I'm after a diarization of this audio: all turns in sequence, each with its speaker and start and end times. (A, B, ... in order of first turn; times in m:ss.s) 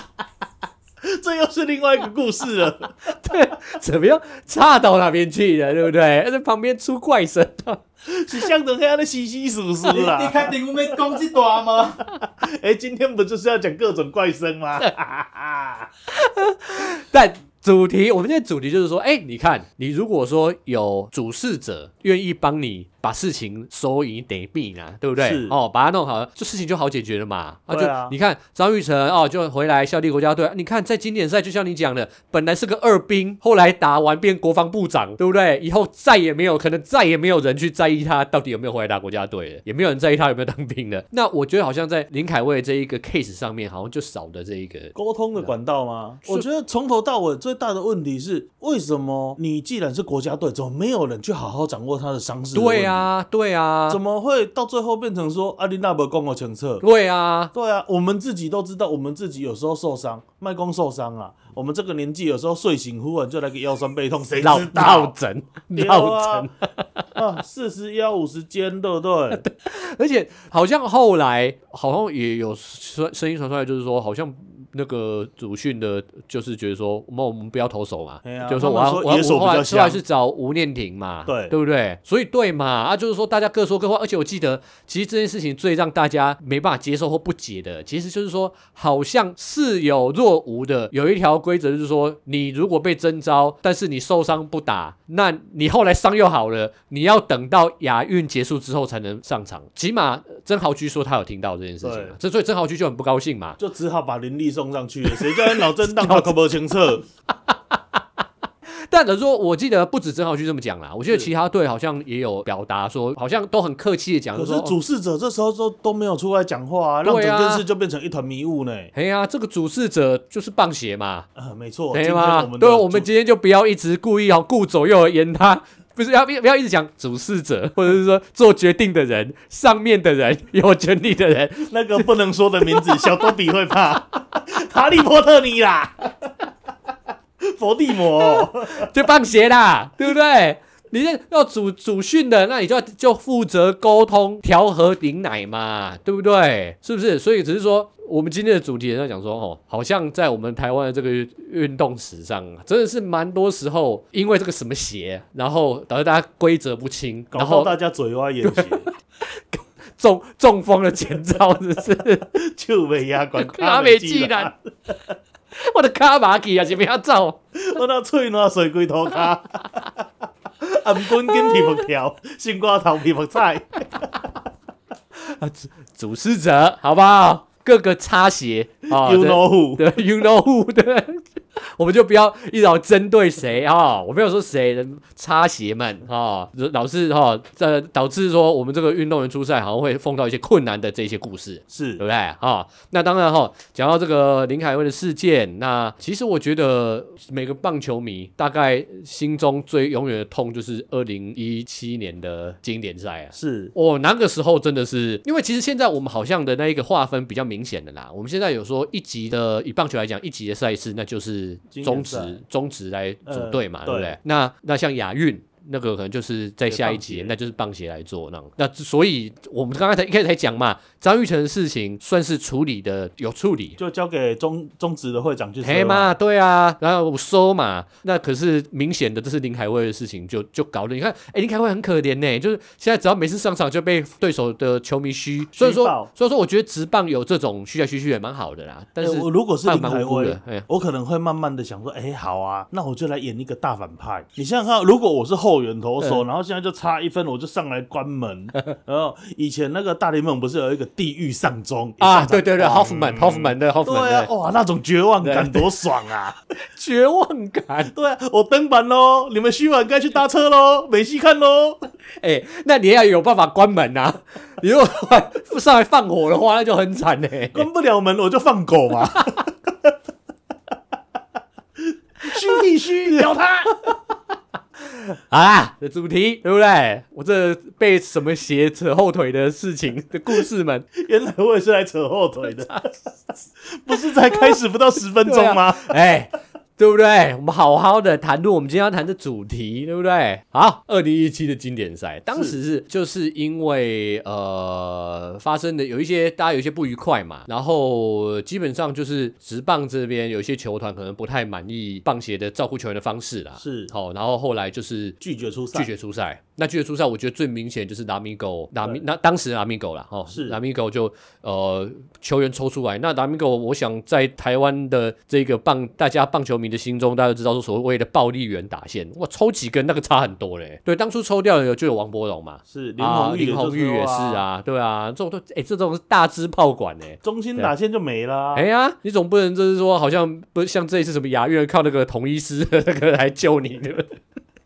0:01.0-0:03.0 A
0:03.0-0:07.8 B
0:08.1-0:11.2 A
0:09.9-0:12.0 C
0:12.0-0:15.9 A
0:16.1-0:45.5 B
0:25.2-0:25.6 A
0:27.7-0:28.2 A
0:44.9-0:53.1 A
0:52.5-0:54.0 B
0:53.9-0:56.8 A
0:56.8-0:57.5 B
0:57.5-1:05.1 A
1:04.4-1:07.0 B
1:05.7-1:06.5 A
1:07.1-1:09.4 A
1:09.4-1:43.6 B
1:18.2-1:20.0 A
1:21.3-1:21.5 A
1:41.8-1:42.1 A
1:43.6-1:47.0 A
1:45.1-1:46.3 B
1:47.3-1:48.0 B
1:48.7-1:54.7 B
1:54.3-1:58.9 A
1:57.0-1:57.6 B
1:58.9-2:01.3 B
2:01.4-2:03.1 A
2:01.9-2:12.1 B
2:11.7-2:16.3 A
2:12.6-2:13.2 B
2:17.4-2:18.9 A
2:18.4-2:37.7 B
2:37.3-2:38.8 A
2:38.4-2:42.3 B
2:42.3-2:45.0 A
2:43.4-2:44.5 B
2:45.6-2:47.4 B
2:47.6-2:50.0 A
2:50.6-2:54.2 A
2:51.3-2:51.8 B
2:55.2-3:43.8 B
2:58.9-2:59.9 A
3:11.7-3:12.0 A
3:23.3-3:23.7 A
3:31.7-3:32.4 A
3:33.2-3:34.2 A
3:36.7-3:37.3 A
3:43.8-3:46.1 A
3:45.6-4:00.7 B
3:55.6-3:56.1 A
3:59.0-4:16.4 A
4:12.0-4:14.3 B
4:15.2-4:15.7 B
4:16.7-4:17.9 B
4:17.9-4:21.9 A
4:22.2-4:27.7 B
4:27.5-4:29.9 A
4:31.8-4:33.8 A
4:32.3-4:33.3 B
4:34.9-4:40.8 B
4:40.9-4:42.9 A
4:43.6-4:45.9 A
4:44.1-4:44.6 B
4:45.2-5:05.2 B
5:03.6-5:03.9 A
5:05.2-5:05.9 A
5:05.7-5:27.7 B
5:10.3-5:10.6 A
5:22.7-5:24.4 A
5:27.2-5:28.6 A
5:28.5-5:34.2 B